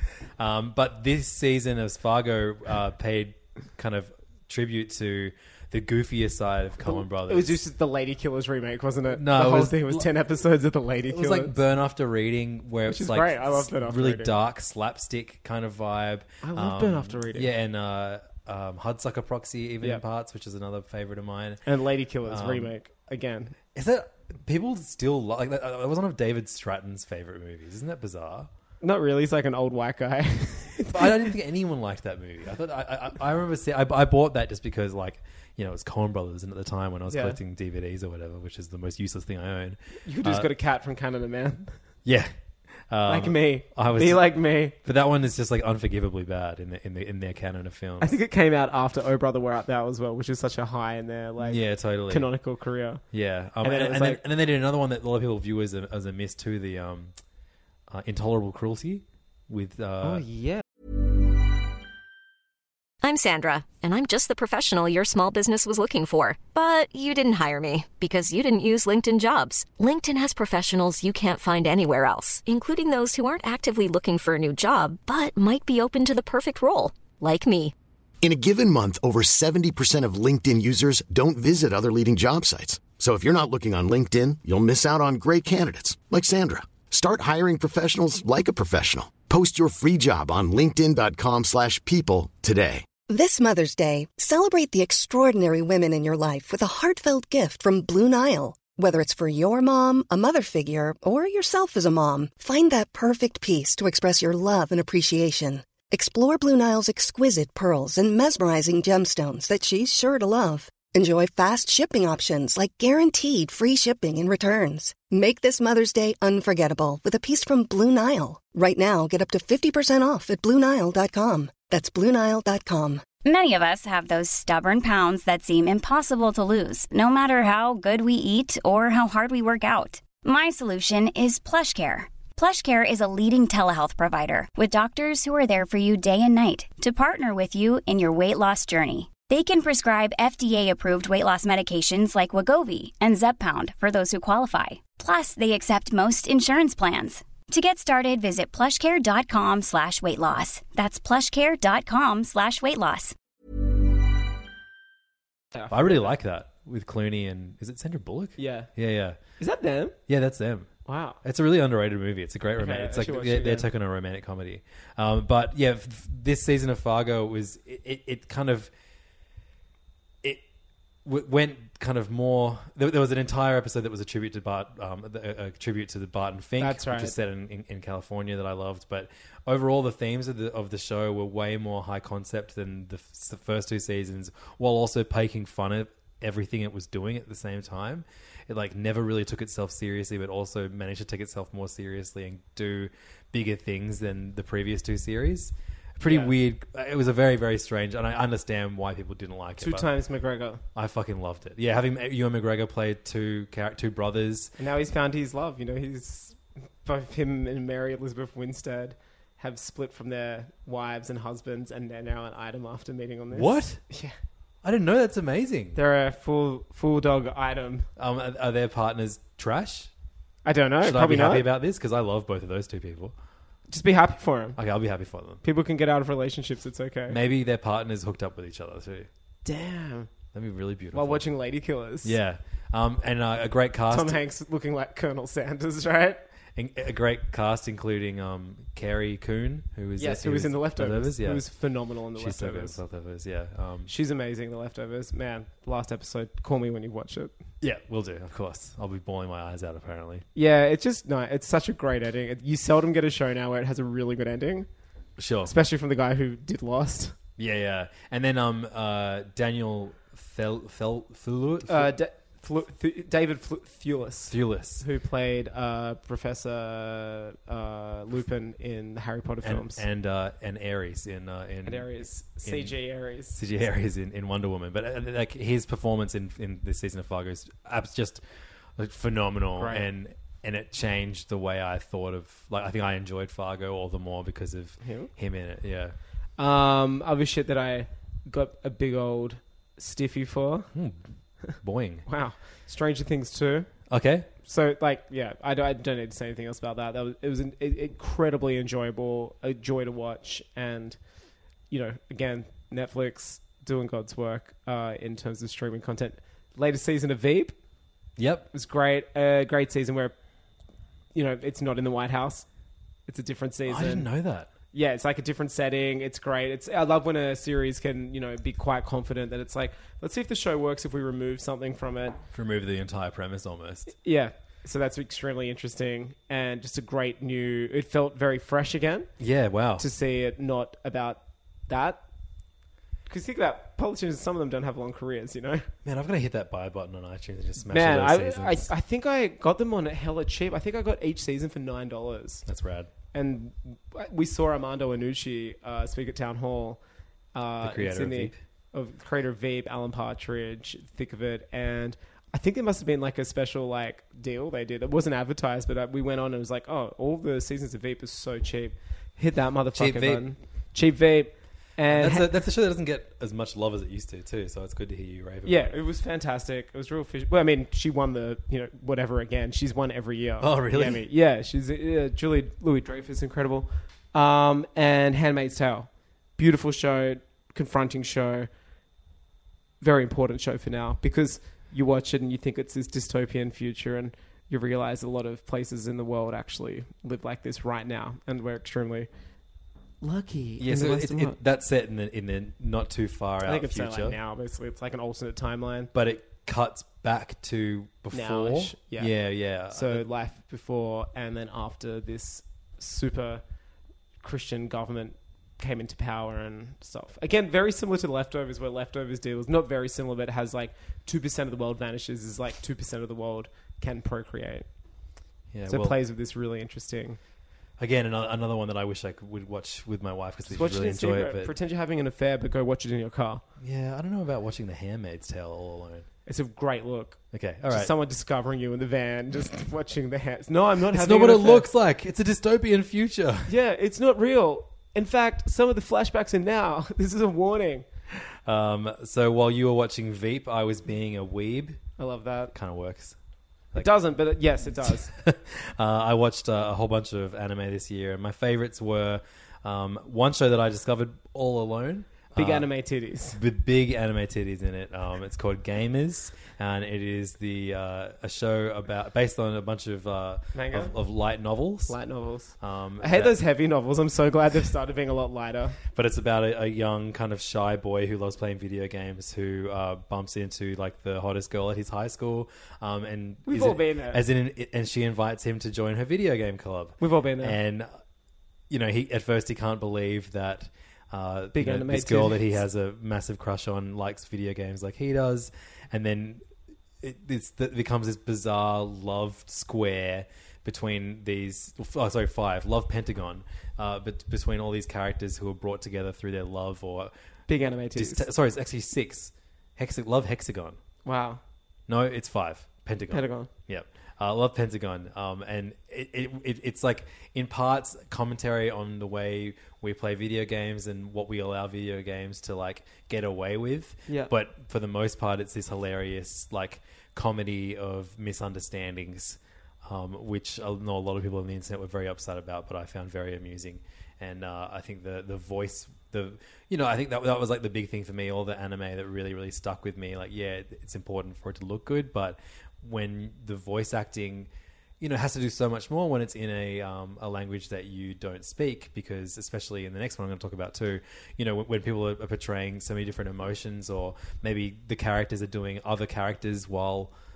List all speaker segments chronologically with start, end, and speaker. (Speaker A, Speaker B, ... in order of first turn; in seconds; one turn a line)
Speaker A: 0.4-7.6
Speaker B: 6.8-11.5
Speaker A: 9.1-10.1
Speaker A: 11.1-21.6
Speaker B: 12.9-14.3
Speaker B: 16.4-17.5
Speaker B: 21.6-23.5
Speaker A: 22.2-22.7
Speaker A: 23.7-28.5
Speaker B: 28.8-31.1
Speaker A: 30.9-40.5
Speaker B: 37.1-37.4
Speaker B: 40.0-41.8
Speaker A: 42.0-42.3
Speaker A: 42.9-48.1
Speaker B: 43.1-44.7
Speaker B: 48.0-53.0
Speaker A: 51.4-52.3
Speaker A: 53.1-57.1
Speaker B: 53.6-54.2
Speaker A: 57.9-60.2
Speaker B: 60.0-60.6
Speaker C: 63.0-77.7
Speaker D: 78.2-92.8
Speaker E: 93.1-123.0
Speaker F: 123.2-153.1
Speaker B: 155.5-156.1
Speaker A: 155.7-159.2
Speaker B: 158.4-158.7
Speaker B: 159.4-159.9
Speaker A: 160.1-160.7
Speaker B: 160.8-161.2
Speaker A: 161.2-168.7
Speaker B: 162.6-163.7
Speaker A: 171.0-199.9
Speaker B: 176.6-177.1
Speaker B: 196.1-196.3
Speaker B: 199.6-200.6
Speaker A: 200.7-204.5
Speaker B: 204.6-214.1
Speaker A: 213.3-213.8
Speaker A: 214.6-215.8
Speaker B: 215.7-217.8
Speaker A: 218.0-219.9
Speaker B: 220.4-221.5
Speaker A: 220.8-223.1
Speaker B: 223.7-224.6
Speaker A: 224.6-225.4
Speaker B: 225.4-227.2
Speaker A: 227.1-229.1
Speaker B: 229.4-230.1
Speaker A: 230.3-231.2
Speaker B: 230.9-232.2
Speaker A: 232.0-234.2
Speaker B: 233.9-236.2
Speaker A: 236.6-241.5
Speaker B: 240.0-242.8
Speaker A: 242.2-243.9
Speaker B: 243.9-247.3
Speaker A: 247.6-250.2
Speaker B: 250.3-254.7
Speaker A: 255.2-255.5
Speaker B: 255.4-257.1
Speaker A: 257.4-261.9
Speaker B: 261.7-269.8
Speaker A: 264.3-264.8
Speaker A: 269.4-272.7
Speaker B: 271.6-273.4
Speaker A: 273.3-278.2
Speaker A: 278.8-285.9
Speaker B: 279.6-279.8
Speaker B: 284.8-285.1
Speaker B: 286.4-290.7
Speaker A: 290.7-291.0
Speaker A: 291.5-292.1
Speaker B: 292.1-293.7
Speaker A: 293.9-294.3
Speaker B: 294.4-301.0
Speaker B: 301.7-307.6
Speaker A: 308.2-308.5
Speaker B: 308.5-310.1
Speaker B: 311.1-312.5
Speaker B: 313.1-314.1
Speaker A: 313.7-314.5
Speaker B: 314.7-322.2
Speaker A: 322.3-323.9
Speaker B: 324.0-329.1
Speaker A: 329.2-329.8
Speaker B: 329.8-332.0
Speaker B: 333.1-335.7
Speaker A: 335.8-338.7
Speaker B: 337.7-342.4
Speaker A: 342.5-342.9
Speaker B: 343.1-346.8
Speaker B: 347.3-362.3
Speaker A: 347.6-348.4
Speaker A: 359.8-360.2
Speaker A: 361.9-365.7
Speaker B: 365.4-378.5
Speaker A: 370.4-371.0
Speaker B: 379.8-389.1
Speaker B: 390.0-391.4
Speaker A: 390.6-394.1
Speaker B: 393.4-395.9
Speaker A: 395.9-400.0
Speaker B: 398.1-399.1
Speaker B: 399.7-403.4
Speaker B: 404.2-414.7
Speaker A: 415.5-416.0
Speaker B: 415.7-417.2
Speaker A: 417.8-421.5
Speaker B: 420.5-423.4
Speaker A: 423.6-426.1
Speaker B: 426.2-431.7
Speaker A: 427.3-427.9
Speaker A: 430.9-433.5
Speaker B: 433.5-437.8
Speaker A: 438.4-441.8
Speaker B: 442.0-442.5
Speaker A: 442.5-443.1
Speaker B: 443.8-445.1
Speaker A: 444.8-452.7
Speaker B: 452.4-453.4
Speaker A: 453.3-462.0
Speaker B: 460.5-460.9
Speaker B: 461.9-465.8
Speaker A: 462.6-463.3
Speaker A: 465.9-477.9
Speaker B: 473.5-474.2
Speaker B: 477.0-477.6
Speaker A: 478.7-486.4
Speaker B: 481.5-482.5
Speaker A: 487.0-497.1
Speaker B: 497.5-498.2
Speaker A: 497.9-500.8
Speaker B: 501.0-501.4
Speaker A: 501.9-534.5
Speaker B: 503.1-503.5
Speaker A: 535.0-547.1